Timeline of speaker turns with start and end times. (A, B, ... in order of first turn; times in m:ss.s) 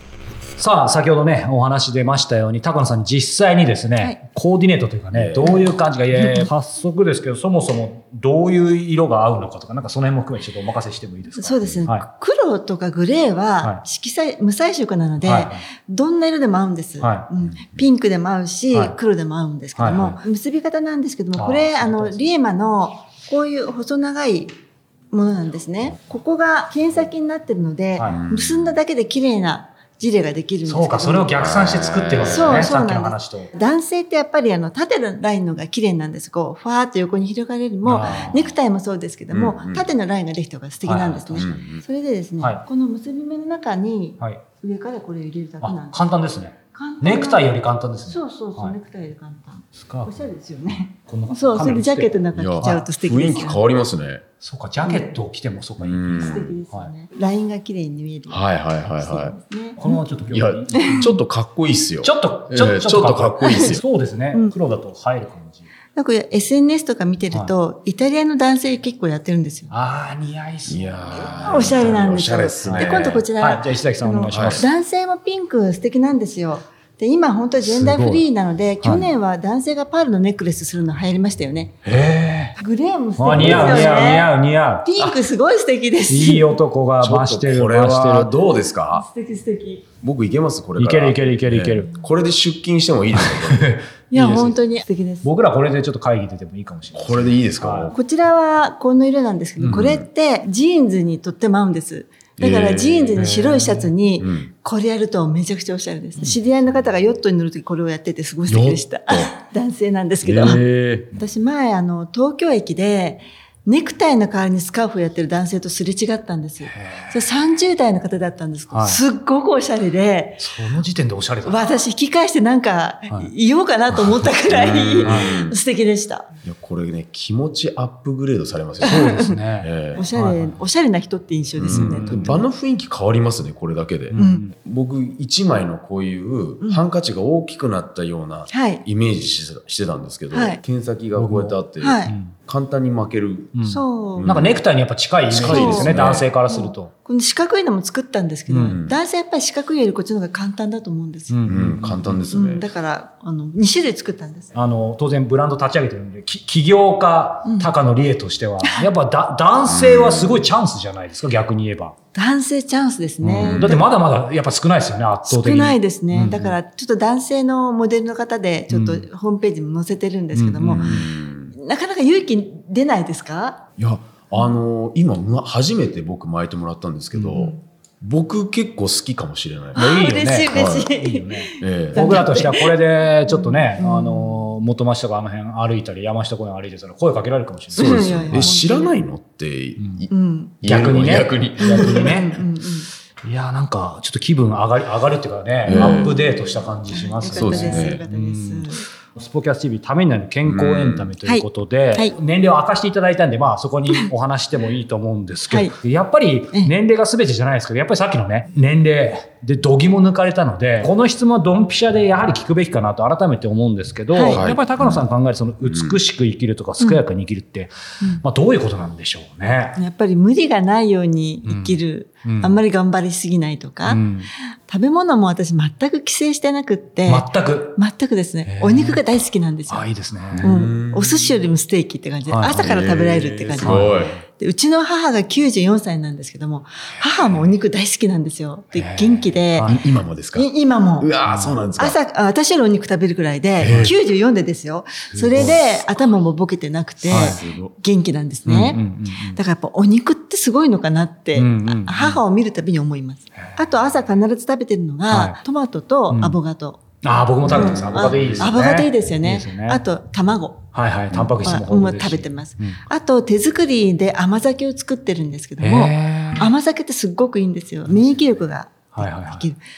0:00.6-0:12.0 A
0:05.1-0:05.6 B
0:11.4-0:24.5 C
0:15.2-0:15.6 A
0:17.0-0:17.3 A
0:19.8-0:20.2 A
0:21.4-0:22.2 A
0:25.1-0:31.4 C
0:28.1-0:28.8 B
0:30.7-0:33.5 A
0:31.4-0:32.7 B
0:32.2-0:46.0 C
0:37.8-0:38.5 A
0:39.3-0:39.9 B
0:40.8-0:41.5 A
0:41.4-0:41.8 B
0:45.6-0:48.8 A
0:46.7-0:47.5 C
0:48.1-0:53.6 C
0:49.7-0:50.1 A
0:51.1-0:52.6 A
0:52.4-0:54.2 B
0:54.4-0:56.9 A
0:55.8-0:56.5 B
0:56.2-0:58.5 C
0:58.3-0:59.4 B
0:59.0-1:00.0 C
0:59.8-1:01.1 A
1:00.3-1:03.8 B
1:00.8-1:01.1 C
1:02.0-1:05.7 A
1:03.4-1:03.8 C
1:06.0-1:09.7 C
1:09.7-1:12.1 A
1:10.7-1:13.2 B
1:11.5-1:21.8 C
1:12.6-1:14.6 A
1:14.3-1:14.6 B
1:17.7-1:18.2 A
1:18.8-1:19.1 A
1:21.8-1:22.2 B
1:21.9-1:22.5 A
1:22.6-1:24.3 C
1:23.2-1:24.9 A
1:23.3-1:24.1 B
1:24.8-1:26.6 C
1:26.1-1:28.4 A
1:27.0-1:29.1 B
1:29.0-1:29.9 C
1:30.0-1:33.7 B
1:30.8-1:32.0 A
1:33.1-1:34.6 A
1:34.1-1:35.3 C
1:35.2-1:37.9 A
1:36.9-1:38.0 B
1:37.9-1:50.6 C
1:39.6-1:39.9 A
1:39.7-1:40.0 B
1:42.4-1:43.2 B
1:43.2-1:43.9 A
1:44.2-1:44.5 B
1:48.5-1:49.3 B
1:50.2-1:51.1 B
1:51.2-2:00.5 C
1:56.6-1:57.2 A
1:58.7-1:59.0 A
2:00.4-2:01.6 A
2:01.4-2:06.3 C
2:04.0-2:04.3 A
2:04.5-2:05.6 B
2:05.0-2:05.4 A
2:06.4-2:10.0 B
2:08.8-2:10.6 A
2:08.9-2:09.2 C
2:10.0-2:12.4 C
2:11.6-2:24.6 B
2:11.6-2:12.4 A
2:14.1-2:14.5 A
2:14.2-2:14.4 C
2:18.5-2:18.8 C
2:20.3-2:20.6 C
2:21.2-2:22.4 A
2:21.8-2:22.1 C
2:23.6-2:26.9 A
2:23.7-2:24.3 C
2:25.3-2:26.3 B
2:25.4-2:25.9 C
2:26.5-2:31.4 C
2:28.5-2:28.8 A
2:28.7-2:28.9 B
2:31.3-2:32.2 A
2:31.5-2:32.7 B
2:32.3-2:34.5 C
2:34.5-2:42.0 A
2:39.6-2:40.5 B
2:42.2-2:43.9 C
2:43.2-2:46.6 A
2:43.4-2:43.8 B
2:45.3-2:50.8 C
2:48.7-2:49.0 A
2:50.3-2:51.0 A
2:50.7-2:51.5 B
2:51.6-2:53.6 C
2:53.8-2:59.8 B
2:57.2-2:57.4 A
2:59.7-3:02.8 C
2:59.8-3:08.5 A
3:00.5-3:00.9 B
3:01.6-3:02.1 B
3:03.3-3:04.5 C
3:07.7-3:08.9 C
3:07.8-3:10.1 B
3:09.8-3:10.0 A
3:10.1-3:10.6 C
3:10.6-3:12.1 B
3:10.6-3:12.4 A
3:11.6-3:12.9 C
3:13.2-3:39.8 A
3:15.7-3:16.2 B
3:15.7-3:16.2 C
3:16.9-3:18.8 C
3:17.3-3:18.0 B
3:20.4-3:21.1 B
3:21.2-3:22.1 C
3:25.5-3:25.7 C
3:34.1-3:34.4 C
3:34.3-3:35.0 B
3:35.6-3:36.0 B
3:39.8-3:44.0 C
3:41.5-3:42.6 A
3:43.9-3:44.3 A
3:44.7-3:49.9 C
3:47.1-3:47.8 A
3:48.4-3:49.0 A
3:49.7-3:50.5 A
3:50.3-3:51.4 B
3:50.4-3:59.7 C
3:52.3-3:52.6 A
3:52.5-3:54.2 B
3:53.6-3:54.1 A
3:58.7-3:59.8 A
3:59.6-4:02.0 B
4:00.4-4:01.1 C
4:01.2-4:01.6 A
4:01.8-4:16.8 C
4:03.6-4:03.9 B
4:03.6-4:03.9 A
4:05.1-4:05.6 A
4:05.2-4:05.6 B
4:07.0-4:07.7 B
4:07.1-4:07.4 A
4:08.5-4:09.4 A
4:11.4-4:12.2 A
4:15.1-4:15.4 A
4:16.1-4:16.4 A
4:17.0-4:19.8 A
4:17.4-4:20.7 C
4:17.5-4:18.5 B
4:20.7-4:22.8 A
4:21.4-4:29.6 C
4:25.6-4:26.5 A
4:28.9-4:29.5 A